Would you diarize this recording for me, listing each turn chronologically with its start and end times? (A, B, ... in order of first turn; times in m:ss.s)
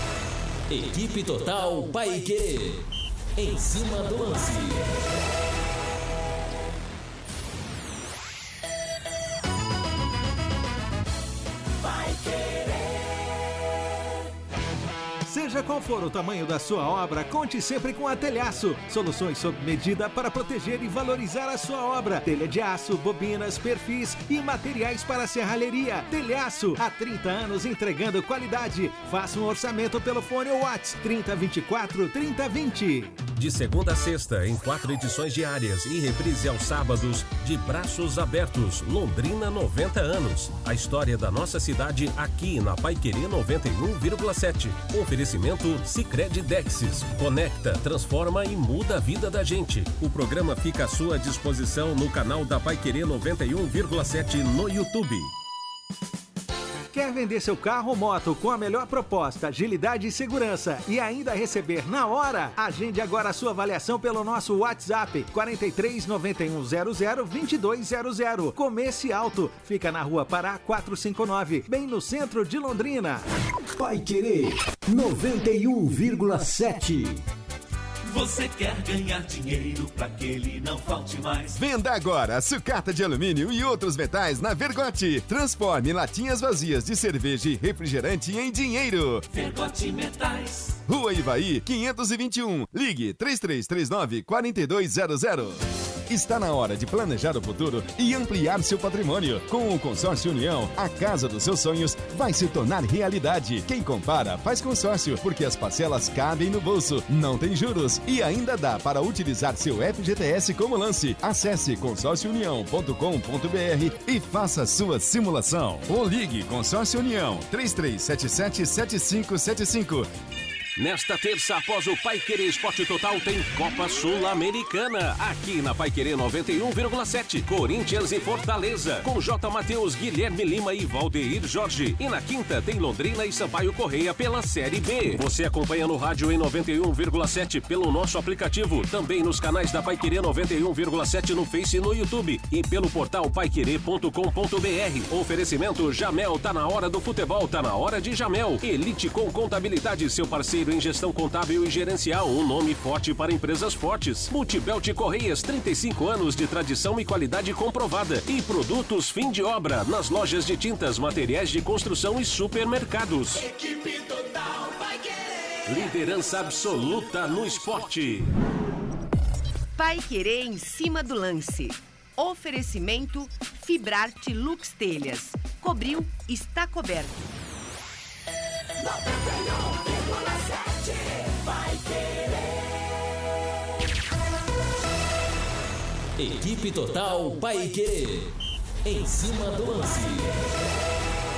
0:00.7-0:05.1 A
0:15.2-0:33.2 B
0:33.3-0:55.3 C
0:56.9-1:13.3 B
1:13.8-1:17.2 B
1:18.1-1:21.6 D
1:21.5-1:29.3 E
1:29.3-1:30.8 D
1:30.9-2:00.1 E
2:00.8-2:43.5 C
2:45.7-2:48.3 C
2:49.8-2:57.2 F
3:06.2-3:10.5 A